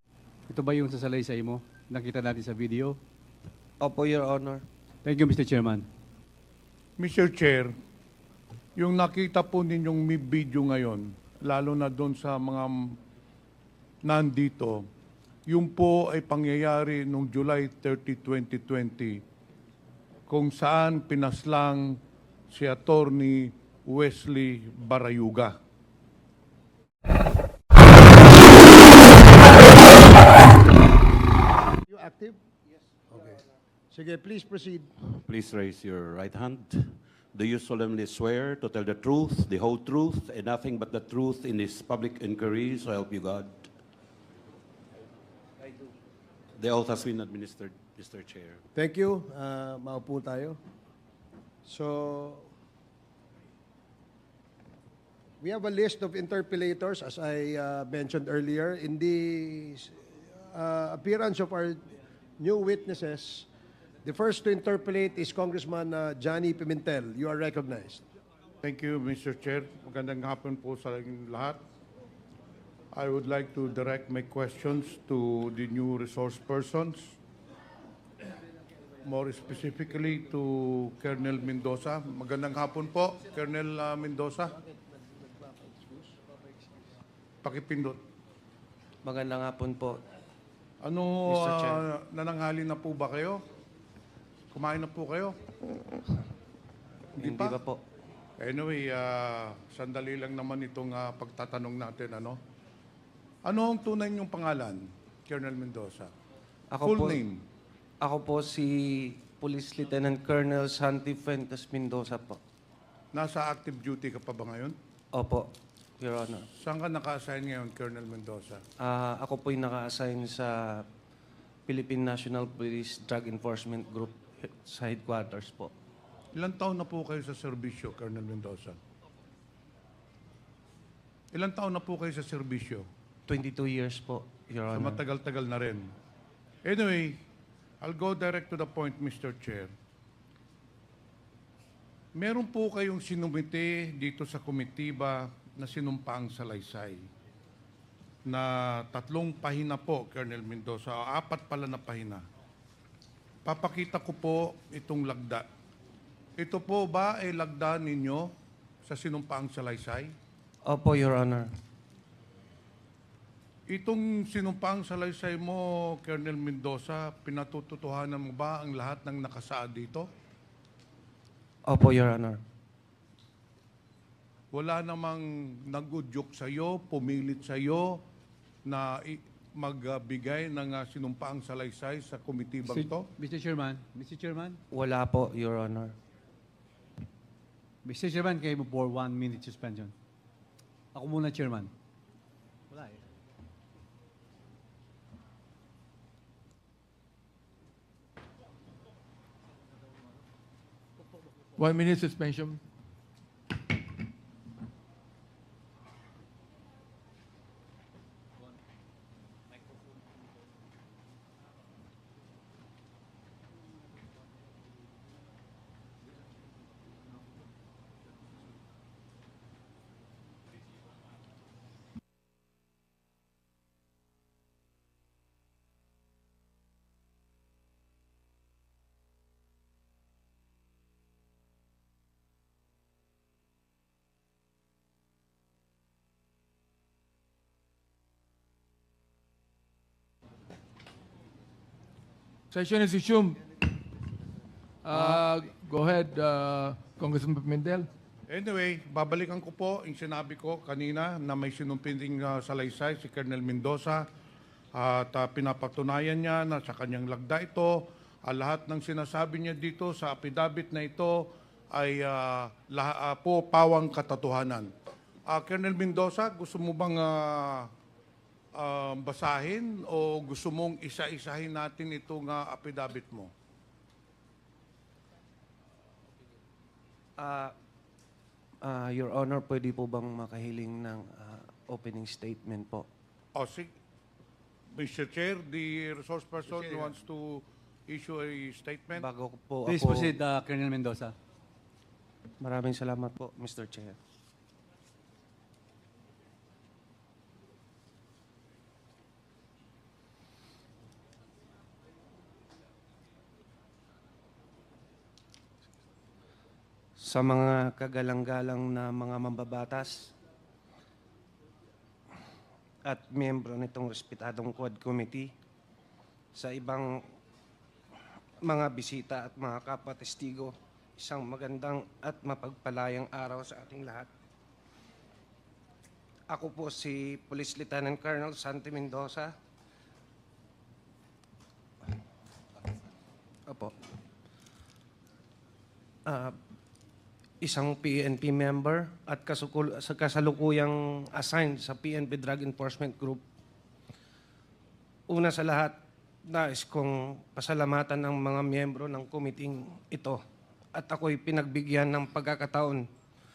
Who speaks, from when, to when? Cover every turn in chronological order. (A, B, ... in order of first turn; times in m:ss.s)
0:00.5-0:03.0 A
0:03.8-0:04.6 B
0:05.0-0:05.9 A
0:07.0-0:07.8 C
0:08.8-0:13.0 C
0:14.0-0:14.9 C
0:15.5-0:19.2 C
0:20.3-0:25.6 C
0:31.9-0:32.4 D
0:33.1-0:34.9 D
0:35.1-0:43.7 E
0:46.6-0:48.6 E
0:48.8-0:50.6 D
0:51.6-0:52.5 D
0:55.4-1:01.8 D
1:02.4-1:03.5 D
1:04.0-1:08.0 D
1:08.6-1:11.6 C
1:12.9-1:17.2 C
1:19.0-1:24.6 C
1:25.6-1:26.1 D
1:27.4-1:28.0 C
1:29.0-1:30.0 B
1:30.8-1:33.4 C
1:31.3-1:31.8 B
1:34.5-1:35.4 C
1:37.2-1:37.6 C
1:37.2-1:37.8 B
1:38.4-1:42.4 C
1:43.4-1:46.1 C
1:46.7-1:47.2 B
1:46.8-1:47.4 C
1:48.0-1:52.4 B
1:53.1-1:54.8 C
1:55.1-1:56.5 B
1:56.6-1:58.6 C
1:58.8-2:00.8 B
2:01.7-2:05.7 B
2:06.4-2:08.8 C
2:11.3-2:12.9 C
2:13.3-2:15.0 B
2:14.7-2:15.9 C
2:16.6-2:17.2 C
2:17.8-2:19.7 C
2:22.2-2:27.1 C
2:28.3-2:32.2 C
2:33.4-2:35.4 C
2:36.4-2:38.3 C
2:38.8-2:40.1 C
2:40.7-2:41.5 B
2:43.7-2:50.1 C
2:51.7-2:52.4 B
2:54.5-2:58.0 C
2:58.6-3:03.1 C
3:02.7-3:04.6 A
3:04.7-3:05.9 B
3:07.8-3:09.9 A
3:11.0-3:11.7 A
3:12.7-3:13.0 A
3:21.6-3:22.6 F
4:02.5-4:03.4 F
4:04.8-4:07.9 F
4:04.9-4:05.3 C
4:08.3-4:14.1 C
4:14.7-4:24.7 C
4:25.3-4:27.7 C
4:28.6-4:33.3 C
4:37.2-4:37.5 B
4:38.6-4:42.9 B
4:43.4-4:43.7 C
4:44.8-4:49.0 C
4:49.0-4:50.2 B
4:49.7-4:51.2 A
4:52.4-4:54.0 B
5:07.0-5:10.1 B
5:12.8-5:15.3 B
5:16.4-5:17.0 B
5:18.4-5:24.1 B
5:26.3-5:29.3 B
5:33.5-5:33.7 B
5:36.1-5:36.4 B
5:37.4-5:43.2 B
5:45.1-5:45.8 B
5:46.3-5:50.2 B
5:50.8-5:52.9 B